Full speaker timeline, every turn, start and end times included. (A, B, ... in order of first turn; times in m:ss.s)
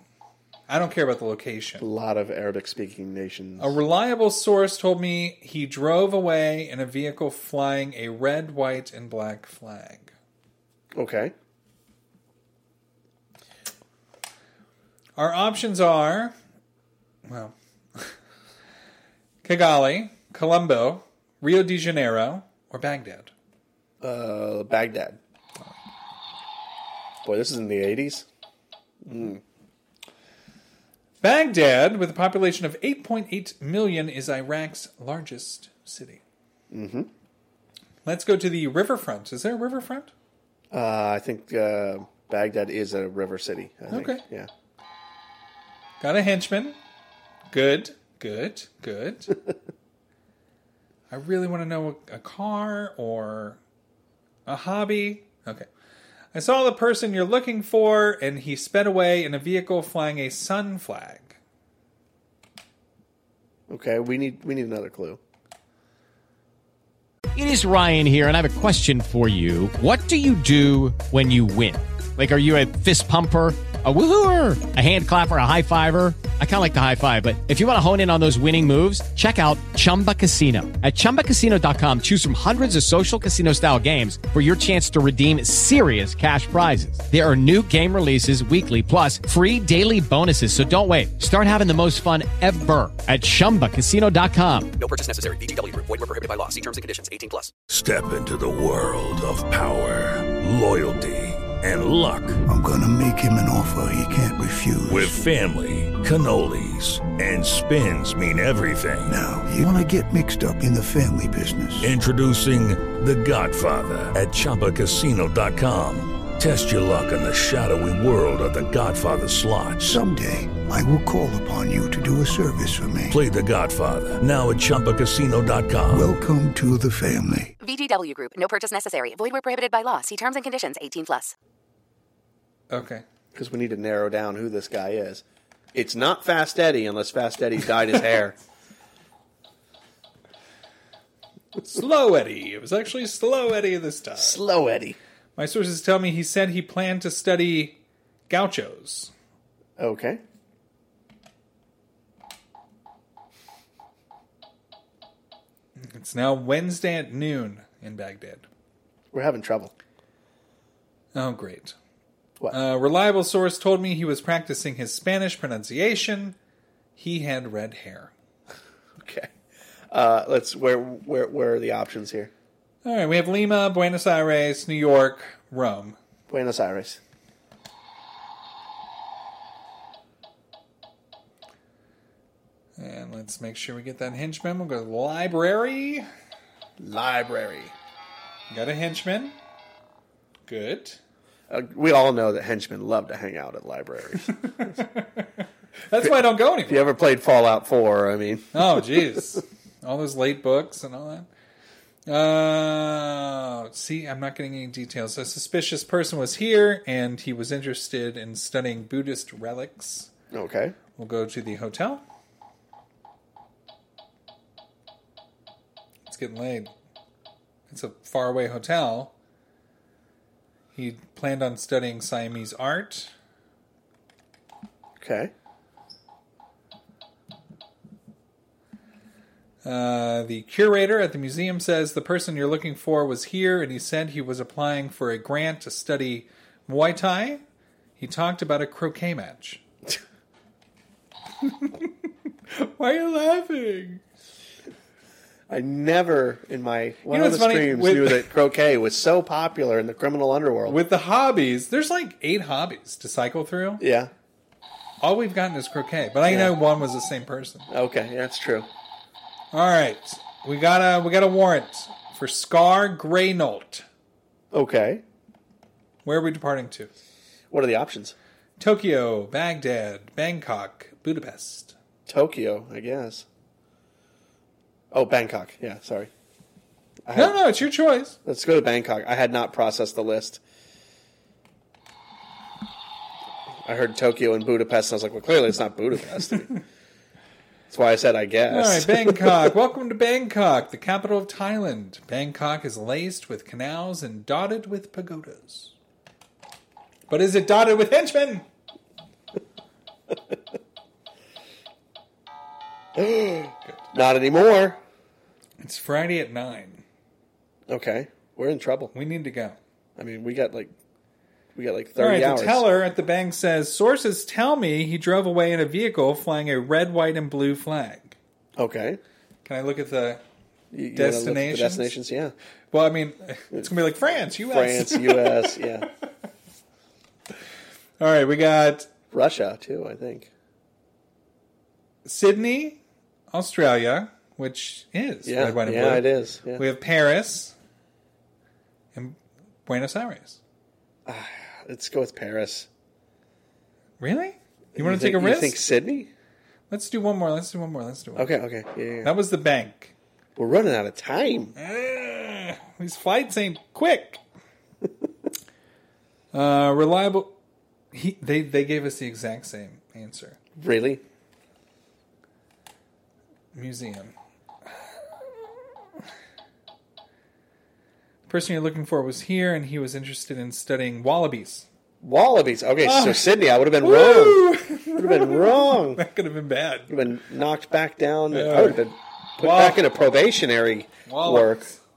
0:00.7-0:01.8 A
0:01.8-0:03.8 B
0:03.6-0:10.1 A
0:10.9-0:11.3 B
0:15.2-0:16.3 A
0:17.2-0:18.1 A
0:19.4-0:23.3 A
0:24.0-0:25.2 B
0:27.2-0:28.3 B
0:29.0-0:29.4 B
0:31.2-0:36.2 A
0:36.7-0:37.1 B
0:38.0-0:40.1 A
0:40.7-0:44.5 B
0:43.9-0:44.2 A
0:46.0-0:46.8 A
0:47.5-0:49.4 A
0:51.1-0:53.6 A
0:54.4-0:55.7 A
0:56.3-1:01.4 A
1:03.7-1:05.2 B
1:07.3-1:34.7 C
1:34.8-1:37.5 D
1:37.7-1:42.4 E
1:42.4-1:45.2 F
1:44.9-1:49.2 E
1:49.0-1:51.9 F
1:51.8-2:00.0 E
1:59.8-2:03.2 F
2:03.1-2:06.2 E
2:05.9-2:07.5 F
2:07.6-2:11.3 G
2:12.7-2:13.0 A
2:13.3-2:18.4 B
2:21.6-2:24.4 A
2:24.2-2:25.0 B
2:25.4-2:29.1 A
2:29.8-2:30.2 B
2:35.8-2:38.4 A
2:39.1-2:39.7 B
2:41.1-2:41.8 A
2:42.5-2:46.4 A
2:47.0-2:48.1 A
2:49.0-2:49.3 B
2:49.9-2:52.3 B
2:52.8-2:56.0 A
2:56.3-2:57.0 B
3:02.8-3:06.1 A
3:06.8-3:07.7 B
3:08.5-3:09.4 A
3:10.5-3:11.0 A
3:11.5-3:14.4 B
3:14.3-3:16.9 A
3:16.7-3:19.0 B
3:18.5-3:21.3 A
3:22.1-3:30.1 A
3:30.3-3:30.8 B
3:31.0-3:32.0 A
3:36.1-3:36.7 A
3:37.7-3:39.1 A
3:40.7-3:43.1 A
3:45.0-3:45.3 B
3:49.6-3:57.4 A
3:58.0-3:59.6 A
4:01.4-4:01.9 A
4:02.5-4:04.0 A
4:05.5-4:10.8 B
4:07.1-4:08.3 A
4:10.7-4:13.8 A
4:13.8-4:14.1 B
4:15.0-4:17.7 A
4:16.2-4:16.5 B
4:17.7-4:18.7 B
4:19.5-4:23.8 A
4:24.5-4:25.0 B
4:26.0-4:26.9 A
4:27.5-4:28.1 B
4:28.6-4:31.7 A
4:32.0-4:33.2 B
4:34.9-4:36.1 B
4:37.1-4:37.4 B
4:37.1-4:38.2 A
4:38.2-4:40.4 B
4:43.6-4:46.5 B
4:47.7-4:49.5 B
4:48.5-4:55.7 A
4:57.1-4:58.4 A
5:03.0-5:04.8 B
5:05.6-5:06.8 A
5:07.7-5:08.9 B
5:08.9-5:09.6 A
5:10.0-5:10.7 B
5:11.5-5:12.7 B
5:12.0-5:18.2 A
5:18.6-5:19.0 B
5:19.4-5:20.2 A
5:20.7-5:22.3 B
5:20.9-5:21.9 A
5:22.7-5:25.6 A
5:24.4-5:25.9 B
5:28.0-5:28.9 A
5:29.1-5:30.3 B
5:32.0-5:37.5 A
5:35.2-5:36.6 B
5:38.9-5:40.4 A
5:41.0-5:42.7 B
5:44.0-5:45.6 A
5:44.7-5:46.1 B
5:46.7-5:48.4 A
5:48.2-5:49.1 B
5:49.0-5:49.9 A
5:50.4-5:51.5 B
5:51.6-5:54.2 A
5:56.3-5:57.3 A
5:57.9-6:00.4 A
6:00.6-6:01.0 B
6:03.5-6:04.1 A
6:08.3-6:11.6 A
6:12.0-6:16.0 B
6:12.8-6:16.9 A
6:16.9-6:21.7 B
6:18.3-6:18.8 A
6:19.4-6:19.8 A
6:21.0-6:21.8 A